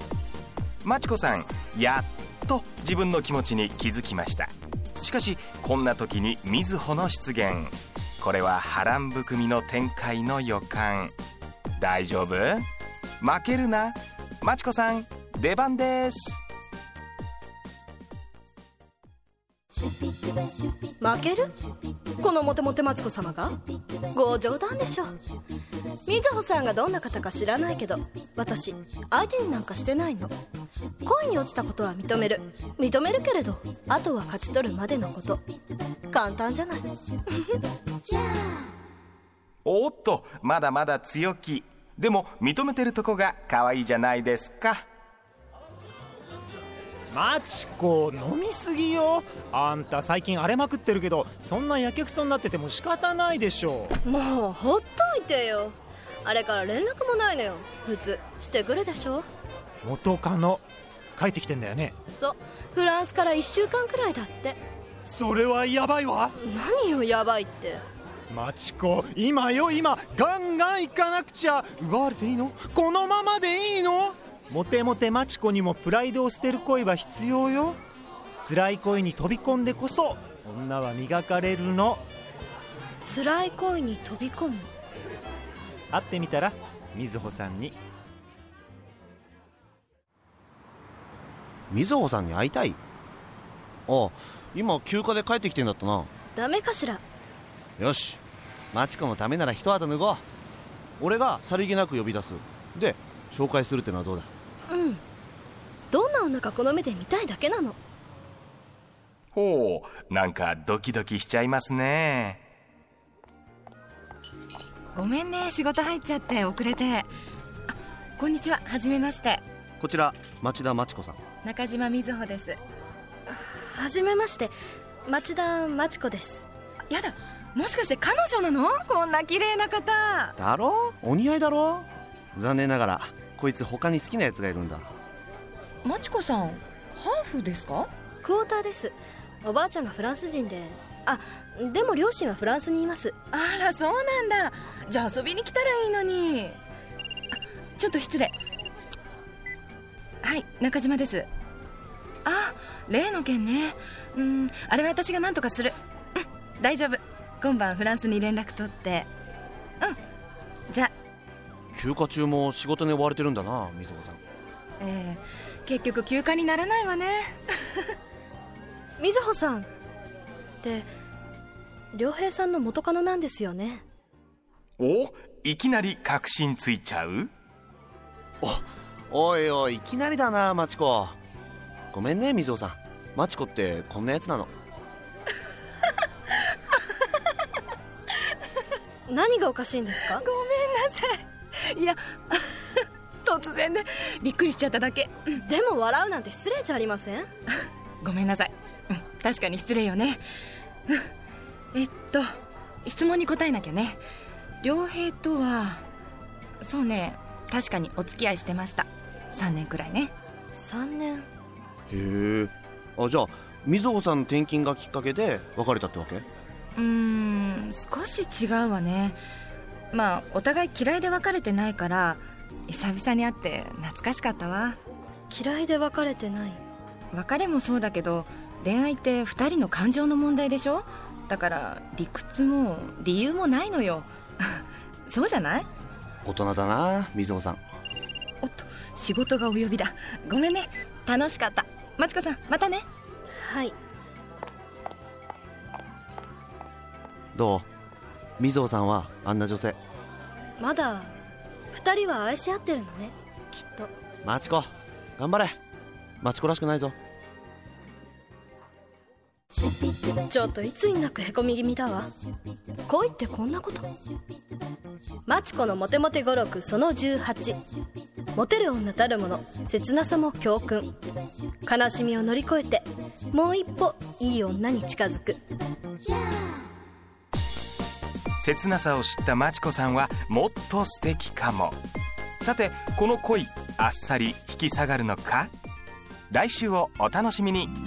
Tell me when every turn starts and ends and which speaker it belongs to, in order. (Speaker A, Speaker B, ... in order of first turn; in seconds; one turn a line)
Speaker A: 0.8-11.1
Speaker A: 11.8-12.6
Speaker A: 13.2-16.4
Speaker B: 21.0-21.6
Speaker B: 22.2-23.6
Speaker B: 24.1-25.1
Speaker B: 26.1-30.3
Speaker B: 31.0-35.4
Speaker B: 36.1-36.9
Speaker A: 39.6-44.9
Speaker C: 47.1-54.0
Speaker B: 54.0-59.2
Speaker C: 59.8-60.6
Speaker C: 61.2-61.9
Speaker B: 62.1-64.6
Speaker C: 65.0-66.3
Speaker B: 66.4-67.8
Speaker C: 68.3-77.8
Speaker C: 78.4-82.0
Speaker B: 83.0-84.7
Speaker C: 85.9-87.7
Speaker D: 91.7-92.8
Speaker D: 93.9-96.1
Speaker B: 96.3-97.0
Speaker D: 97.8-98.2
Speaker D: 98.7-100.2
Speaker D: 101.0-104.3
Speaker B: 104.7-105.0
Speaker B: 105.9-107.8
Speaker A: 109.3-112.4
Speaker E: 114.9-117.1
Speaker E: 117.7-119.4
Speaker D: 119.8-121.2
Speaker E: 121.4-122.6
Speaker B: 123.3-124.5
Speaker B: 125.0-126.5
Speaker E: 126.9-130.3
Speaker D: 130.4-134.8
Speaker E: 135.8-137.9
Speaker B: 138.2-143.2
Speaker E: 143.3-146.6
Speaker E: 147.3-148.3
Speaker E: 150.2-151.3
Speaker E: 152.2-159.1
Speaker D: 161.7-164.2
Speaker E: 164.8-167.9
Speaker B: 169.0-169.7
Speaker B: 170.6-170.9
Speaker B: 171.9-173.8
Speaker A: 174.8-177.3
Speaker D: 178.4-181.2
Speaker D: 181.9-184.5
Speaker B: 189.1-190.2
Speaker E: 190.0-195.3
Speaker B: 195.4-197.3
Speaker E: 198.0-200.2
Speaker E: 201.7-202.3
Speaker E: 202.8-204.0
Speaker E: 204.6-205.8
Speaker E: 206.6-210.1
Speaker B: 210.5-211.3
Speaker D: 211.9-216.2
Speaker E: 216.8-219.2
Speaker E: 219.9-224.8
Speaker B: 225.3-226.6
Speaker E: 227.1-235.7
Speaker D: 236.2-237.6
Speaker E: 238.4-242.8
Speaker B: 243.4-243.7
Speaker D: 247.3-247.7
Speaker D: 248.4-249.8
Speaker B: 250.6-251.1
Speaker B: 251.7-253.9
Speaker D: 254.2-255.6
Speaker D: 256.2-256.9
Speaker B: 260.3-262.1
Speaker B: 262.9-263.9
Speaker B: 265.3-267.6
Speaker B: 268.3-270.9
Speaker B: 271.6-275.4
Speaker A: 278.4-281.8
Speaker A: 282.4-285.5
Speaker A: 286.3-287.7